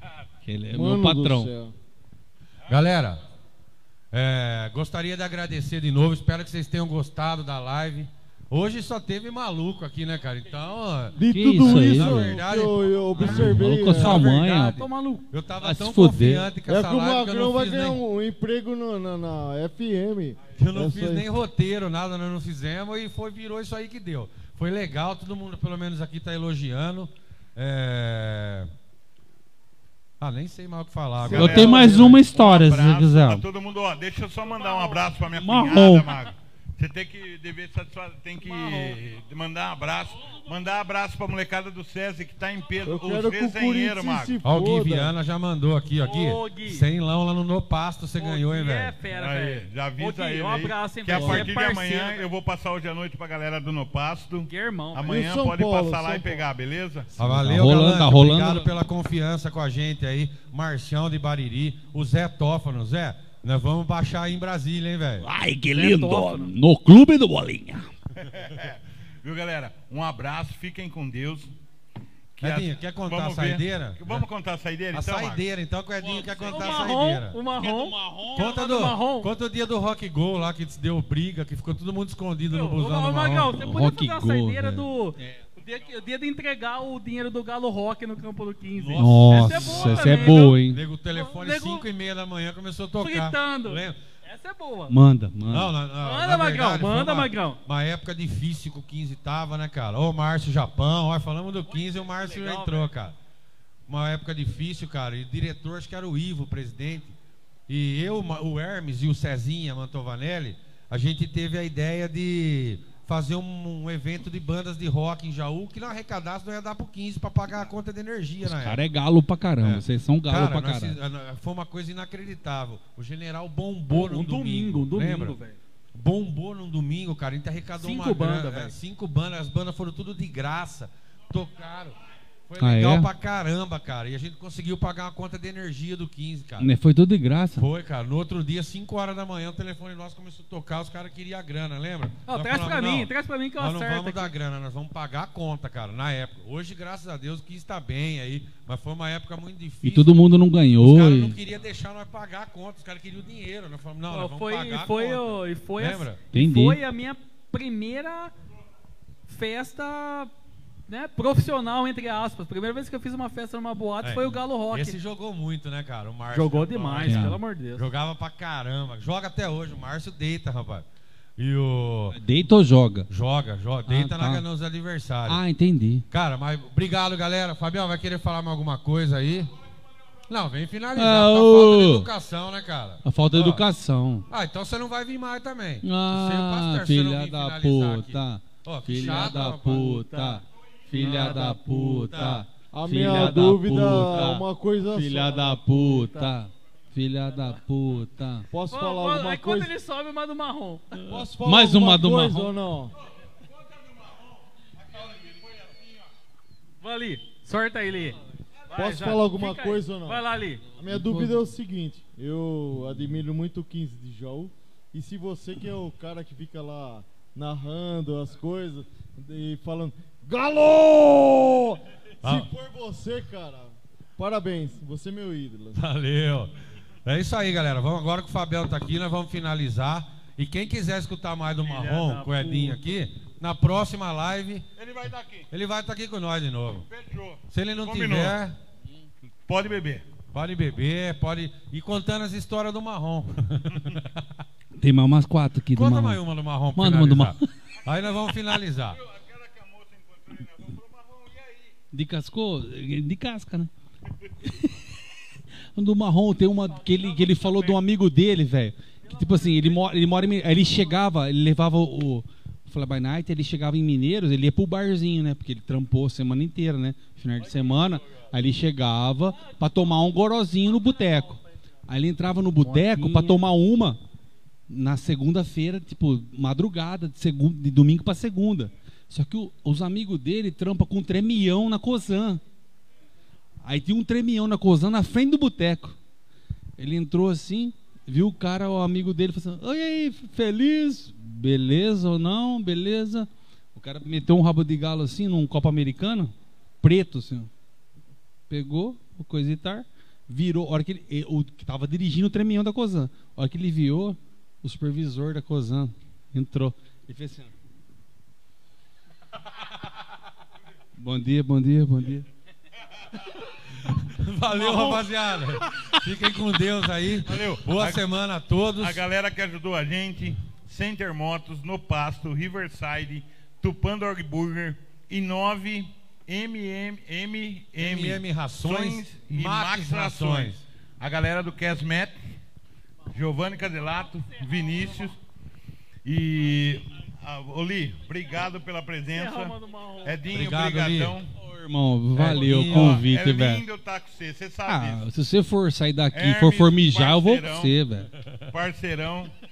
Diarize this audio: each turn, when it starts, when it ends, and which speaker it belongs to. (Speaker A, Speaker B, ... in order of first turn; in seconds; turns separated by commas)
Speaker A: 0.4-1.5, Speaker B: 0.7-1.7, Speaker C: 2.7-3.2, Speaker C: 4.1-18.0, Speaker B: 11.2-14.3, Speaker A: 11.3-12.4, Speaker A: 13.2-14.8, Speaker D: 14.8-15.3, Speaker A: 15.6-16.5, Speaker B: 16.6-21.3, Speaker C: 20.5-28.7, Speaker C: 30.2-32.2, Speaker E: 31.2-44.4, Speaker A: 31.3-33.4, Speaker B: 31.4-31.9, Speaker A: 35.3-36.2, Speaker D: 38.4-39.0, Speaker B: 42.8-45.1, Speaker C: 44.4-48.9, Speaker D: 46.0-46.8, Speaker D: 48.2-52.2, Speaker E: 49.1-57.1, Speaker D: 54.5-55.2, Speaker B: 55.1-56.4, Speaker A: 57.1-58.7, Speaker C: 57.1-65.3, Speaker A: 65.2-67.9, Speaker D: 65.7-66.5, Speaker E: 68.2-71.5, Speaker E: 72.3-75.5, Speaker C: 72.4-74.2, Speaker C: 74.9-77.4, Speaker A: 76.1-76.3, Speaker D: 76.5-79.3, Speaker A: 77.5-78.6, Speaker C: 78.3-83.5, Speaker D: 82.5-91.8, Speaker A: 83.5-85.4, Speaker C: 88.7-94.0, Speaker A: 88.9-90.8, Speaker D: 93.0-94.9, Speaker A: 94.9-95.7, Speaker C: 95.5-103.1, Speaker D: 96.0-97.6, Speaker D: 102.0-102.9, Speaker C: 103.9-107.2, Speaker C: 107.7-118.8, Speaker A: 118.4-121.0, Speaker C: 119.6-125.4, Speaker D: 123.9-125.6, Speaker C: 125.9-136.7, Speaker D: 127.8-128.8, Speaker A: 132.6-133.1, Speaker A: 136.6-137.7, Speaker C: 137.6-150.2, Speaker D: 142.3-144.3, Speaker A: 149.8-151.4, Speaker C: 150.8-156.2, Speaker D: 154.1-158.3, Speaker A: 156.3-156.8, Speaker D: 159.3-160.3, Speaker D: 160.9-165.0, Speaker C: 164.0-170.8, Speaker D: 166.3-167.9, Speaker A: 167.0-167.4, Speaker C: 171.4-172.2, Speaker A: 172.1-173.1, Speaker C: 173.1-175.4, Speaker A: 173.8-174.4, Speaker A: 175.2-176.0, Speaker C: 176.1-179.5, Speaker C: 180.3-183.7, Speaker A: 180.9-182.1, Speaker A: 183.0-184.2, Speaker C: 184.3-190.0, Speaker A: 185.8-198.5, Speaker D: 189.0-190.4, Speaker D: 190.9-191.6, Speaker C: 190.9-192.4, Speaker B: 192.7-195.8, Speaker D: 195.8-196.3, Speaker B: 198.5-199.7, Speaker D: 198.7-201.0, Speaker A: 201.0-202.5, Speaker B: 201.1-202.9, Speaker E: 205.0-205.9, Speaker D: 206.8-208.2, Speaker D: 208.7-210.6, Speaker B: 208.7-210.2, Speaker B: 210.8-225.8, Speaker A: 210.9-211.4, Speaker C: 222.2-222.5, Speaker C: 225.7-226.5, Speaker C: 227.0-234.7, Speaker E: 231.6-232.6, Speaker D: 232.4-232.7, Speaker E: 234.8-235.5, Speaker C: 235.5-236.9, Speaker E: 236.9-238.4, Speaker C: 237.5-238.6, Speaker E: 239.4-240.1, Speaker C: 240.3-244.2, Speaker A: 244.8-246.2, Speaker C: 245.7-249.0, Speaker A: 246.7-247.5, Speaker E: 249.0-251.7, Speaker A: 251.9-253.7, Speaker A: 254.4-255.0, Speaker A: 255.7-274.0, Speaker D: 259.2-259.7, Speaker D: 272.9-273.2, Speaker A: 274.7-282.4, Speaker A: 283.6-286.0, Speaker A: 286.8-297.5, Speaker A: 298.5-307.5, Speaker A: 310.9-312.2, Speaker C: 313.8-319.0, Speaker A: 314.6-315.0, Speaker A: 315.7-316.0, Speaker E: 317.2-318.1, Speaker E: 318.8-332.3, Speaker C: 327.8-330.6, Speaker E: 333.1-335.2, Speaker E: 336.0-341.3, Speaker D: 339.1-340.2, Speaker C: 340.3-341.2, Speaker A: 341.3-343.6, Speaker C: 342.1-343.1, Speaker E: 342.5-345.0, Speaker A: 344.6-348.1, Speaker E: 346.1-347.7, Speaker C: 348.2-348.5, Speaker E: 348.5-349.3